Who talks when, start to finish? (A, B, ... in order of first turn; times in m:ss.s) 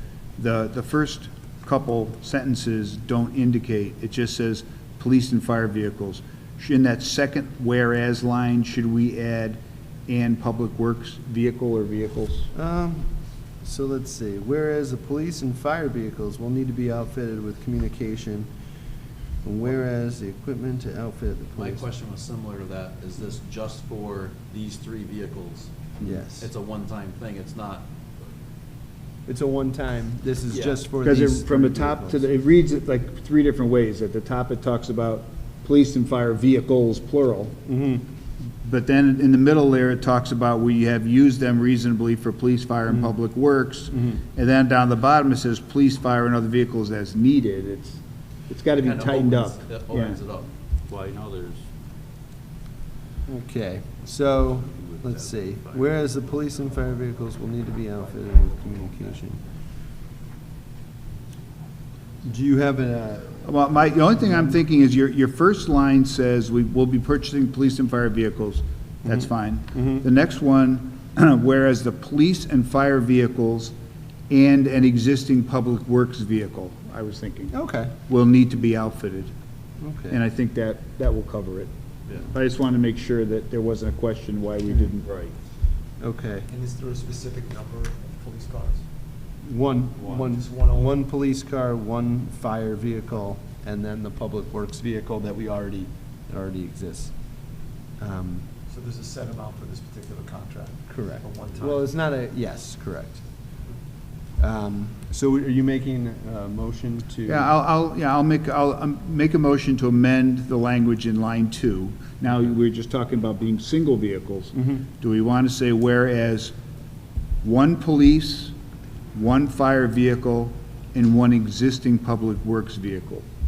0:00.4-0:12.5 A
0:12.5-0:18.5 B
0:19.4-0:21.8 B
0:21.5-0:27.9 C
0:26.0-0:26.5 B
0:29.3-0:32.3 B
0:30.5-0:30.8 C
0:31.0-0:37.6 A
0:37.6-0:38.0 B
0:38.6-0:50.2 A
0:43.9-0:44.2 B
0:48.7-0:50.5 C
0:50.9-0:51.6 D
0:53.3-0:59.4 B
0:54.7-0:55.8 D
1:02.2-1:03.4 B
1:03.4-1:13.7 A
1:09.0-1:10.0 B
1:14.3-1:17.5 A
1:17.5-1:17.9 B
1:18.1-1:19.3 A
1:19.8-1:20.2 B
1:20.1-1:25.1 A
1:25.0-1:25.3 D
1:26.0-1:26.5 B
1:26.5-1:28.8 E
1:29.4-1:37.4 B
1:30.0-1:30.3 D
1:30.2-1:31.0 E
1:38.0-1:38.5 B
1:38.7-1:41.9 E
1:40.9-1:43.3 B
1:44.4-1:47.5 B
1:47.3-1:56.5 A
1:54.6-1:54.8 B
1:57.4-1:58.5 A
1:59.1-2:03.2 A